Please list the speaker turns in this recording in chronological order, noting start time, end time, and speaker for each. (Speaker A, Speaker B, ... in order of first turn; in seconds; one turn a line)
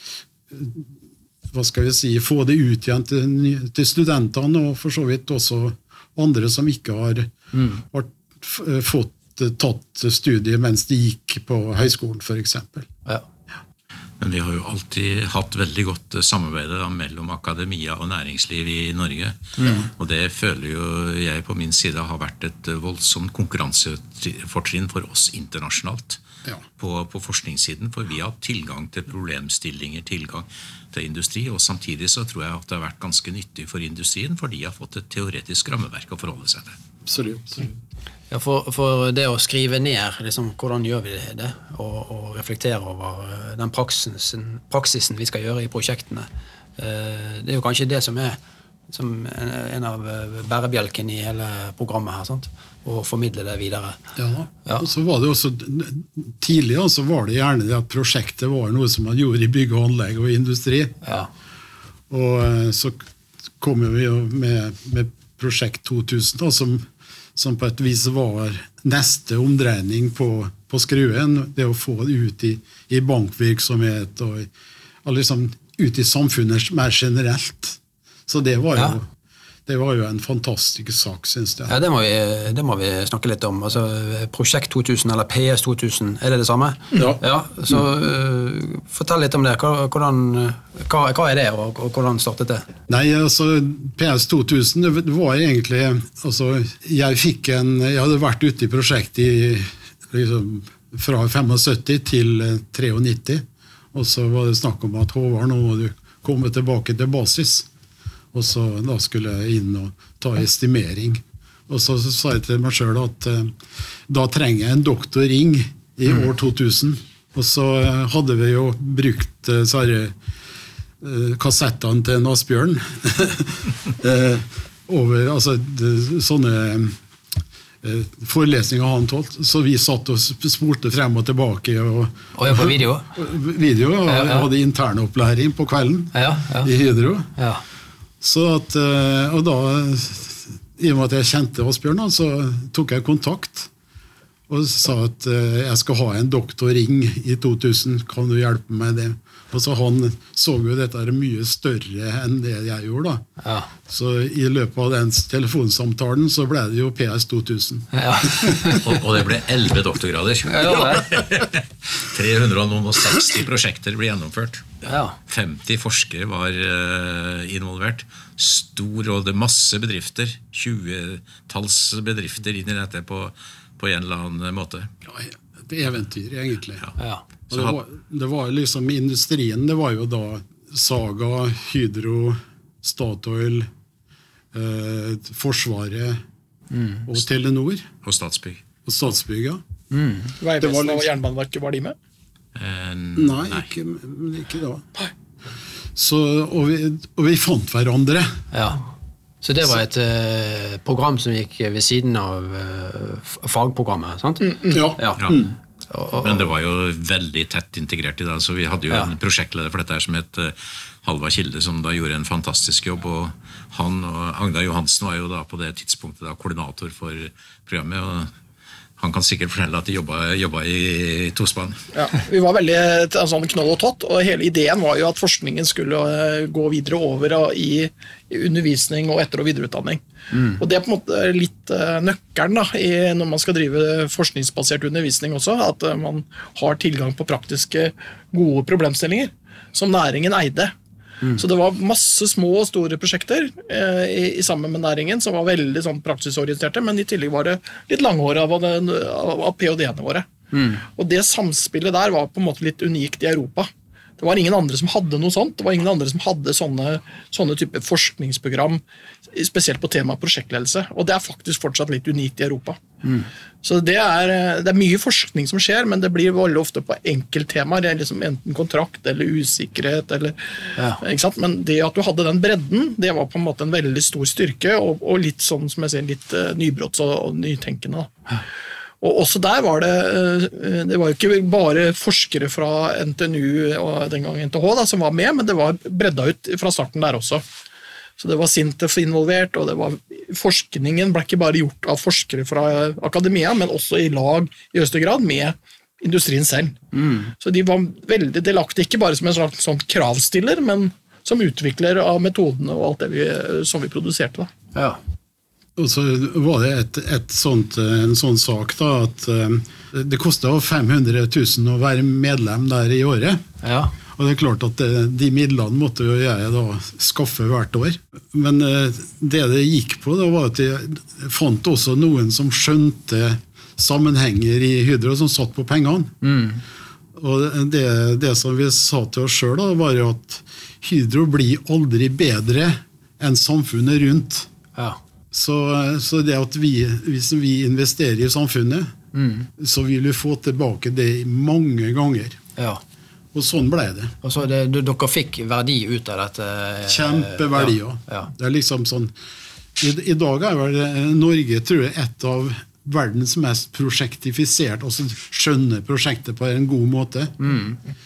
Speaker A: 0.5-0.9
Speaker A: 1.5-12.9
Speaker B: 7.5-7.8
Speaker C: 14.2-26.2
Speaker B: 19.6-19.9
Speaker C: 26.8-36.8
Speaker A: 37.1-37.7
Speaker B: 38.3-48.4
Speaker B: 48.9-54.0
Speaker A: 54.1-61.0
Speaker B: 61.0-61.3
Speaker A: 62.1-63.0
Speaker A: 63.6-74.5
Speaker A: 75.0-79.1
Speaker A: 79.7-81.8
Speaker B: 81.7-92.7
Speaker A: 86.9-87.8
Speaker A: 92.9-107.7
Speaker A: 108.3-113.5
Speaker A: 114.1-120.1
Speaker A: 121.0-127.0
Speaker A: 127.8-137.3
Speaker B: 132.4-133.1
Speaker B: 134.1-134.5
Speaker B: 136.1-136.7
Speaker B: 137.4-137.6
Speaker A: 138.2-143.7
Speaker A: 144.5-153.3
Speaker B: 153.4-153.7
Speaker A: 153.9-158.8
Speaker B: 157.9-158.8
Speaker C: 158.7-164.7
Speaker B: 160.5-161.2
Speaker B: 164.8-165.2
Speaker C: 165.3-174.9
Speaker A: 175.1-176.9
Speaker B: 177.0-177.2
Speaker A: 177.5-183.7
Speaker A: 184.5-186.2
Speaker B: 186.7-187.1
Speaker A: 187.1-187.9
Speaker C: 188.0-188.6
Speaker A: 188.8-189.6
Speaker B: 189.9-190.4
Speaker D: 190.4-191.9
Speaker A: 190.6-191.1
Speaker C: 192.6-193.7
Speaker A: 193.2-194.9
Speaker A: 195.9-198.4
Speaker B: 198.5-198.8
Speaker B: 199.4-205.3
Speaker D: 204.4-204.8
Speaker A: 204.7-205.6
Speaker B: 205.9-206.4
Speaker C: 206.2-218.3
Speaker C: 219.0-221.8
Speaker D: 221.9-230.0
Speaker B: 230.3-230.6
Speaker D: 230.6-240.7
Speaker D: 241.4-250.3
Speaker B: 250.5-250.8
Speaker D: 250.9-262.8
Speaker D: 263.6-270.4
Speaker D: 271.0-278.1
Speaker D: 279.0-287.4
Speaker D: 288.2-296.8
Speaker B: 296.9-297.3
Speaker D: 297.3-304.5
Speaker B: 304.7-305.0
Speaker A: 305.8-313.4
Speaker B: 313.6-313.9
Speaker A: 314.1-326.1
Speaker B: 326.2-326.6
Speaker A: 327.1-334.5
Speaker A: 335.3-338.9
Speaker B: 339.1-339.5
Speaker A: 339.6-342.4
Speaker B: 342.6-342.8
Speaker A: 343.3-344.1
Speaker B: 344.2-348.3
Speaker A: 346.9-349.1
Speaker A: 349.8-357.5
Speaker B: 357.4-357.8